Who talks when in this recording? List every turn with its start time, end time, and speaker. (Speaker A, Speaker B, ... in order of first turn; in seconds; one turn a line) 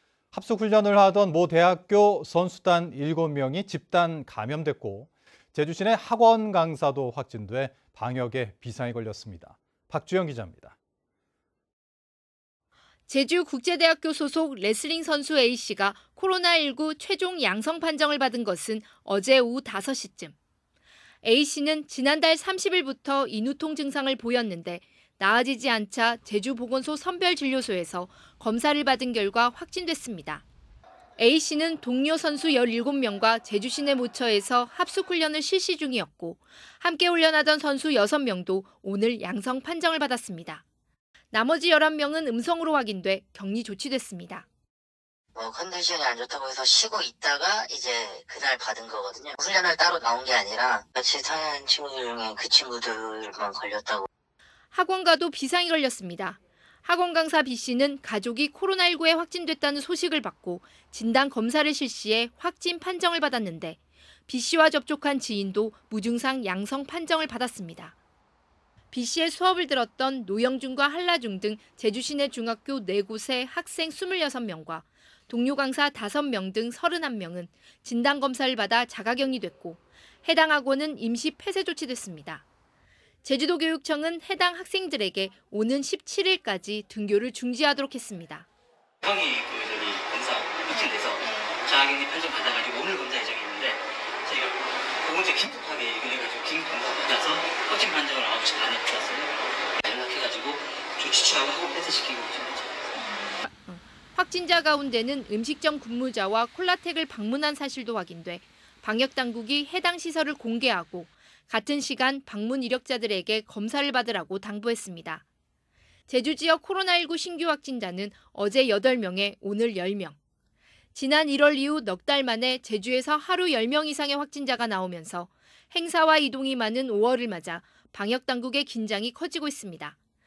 Speaker A: 0.3-10.7
Speaker B: 13.1-20.3
Speaker B: 21.2-30.4
Speaker B: 31.2-40.6
Speaker B: 41.3-44.5
Speaker C: 45.3-54.0
Speaker B: 54.7-67.9
Speaker B: 68.9-82.4
Speaker B: 83.2-88.5
Speaker D: 89.0-103.0
Speaker B: 103.4-115.2
Speaker B: 116.1-120.2
Speaker B: 120.9-130.0